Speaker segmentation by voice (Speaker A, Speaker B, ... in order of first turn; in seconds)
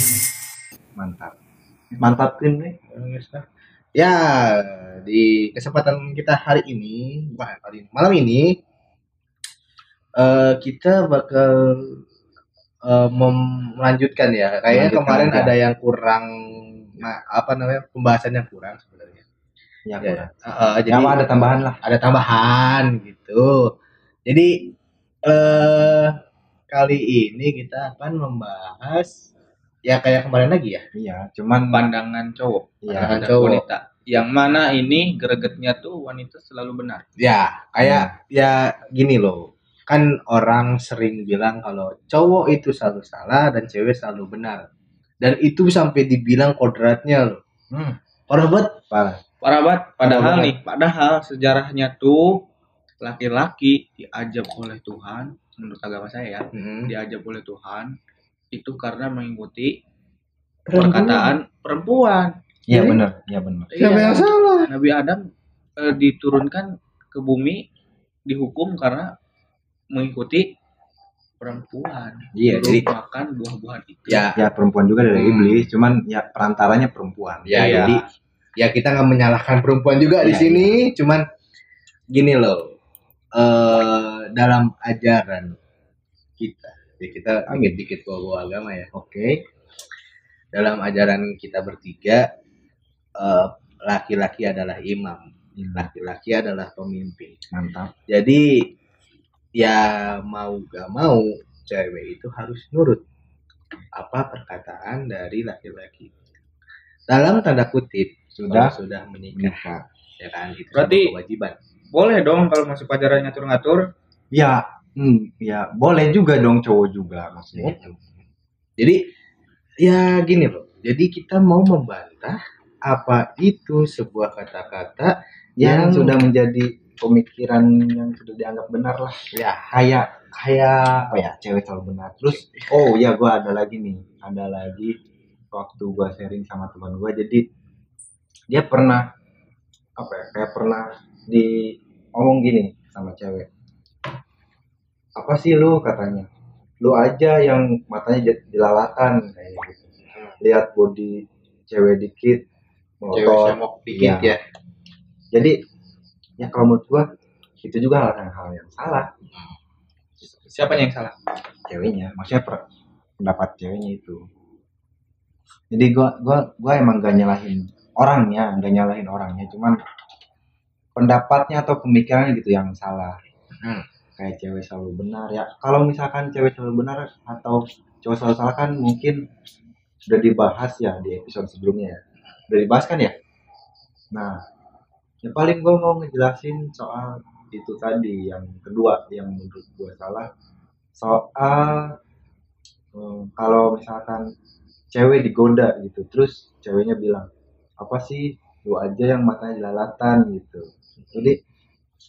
Speaker A: 1.0-1.4, 2.0-2.8, 14.7-15.5, 19.9-20.4, 20.9-21.8, 30.9-31.9, 32.8-33.3, 37.8-38.1, 48.9-49.2, 50.0-50.5, 62.7-63.8, 72.3-72.9, 74.3-77.8, 80.2-80.8, 88.9-89.4, 97.5-97.9, 108.4-108.8, 109.3-109.8, 114.3-117.9, 125.6-129.2, 129.7-130.1, 131.0-134.9, 135.5-137.4, 138.5-139.0, 140.0-141.6, 142.2-143.5, 145.2-146.3, 146.8-149.9, 150.4-151.2, 151.7-152.4, 153.0-154.4, 156.4-157.1, 157.6-159.1, 161.7-162.6, 163.2-164.2, 165.7-169.8, 171.0-173.2, 174.2-179.2, 180.1-182.0, 182.5-183.1, 185.2-190.3, 191.0-191.9, 192.9-194.2, 194.9-197.3, 197.8-201.4
Speaker B: 2.9-3.5, 31.7-37.0, 49.4-52.4, 53.0-57.9, 58.5-59.7, 60.7-62.3, 63.7-65.2, 65.8-67.6, 68.3-69.1, 69.9-70.5, 71.4-74.3, 77.5-78.0, 110.7-111.1, 111.9-113.8, 153.1-154.4, 160.5-161.2
Speaker C: 4.0-8.5, 10.2-12.0, 12.9-16.3, 16.8-19.2, 20.0-23.7, 24.3-24.7, 25.2-26.1, 26.7-29.3, 29.9-30.8, 32.9-33.6, 37.2-44.6, 45.2-47.4, 48.3-48.8, 50.1-50.4, 56.5-56.9, 60.7-61.2, 62.7-63.0, 63.8-64.7, 74.1-74.5, 75.1-75.7, 77.5-78.0, 78.6-81.2, 82.1-82.7, 83.4-85.6, 86.4-88.9, 90.5-92.2, 93.2-97.4, 98.1-98.4, 99.6-103.0, 104.0-106.1, 107.1-111.6, 117.5-118.0, 119.8-126.3, 129.3-131.2, 132.3-132.7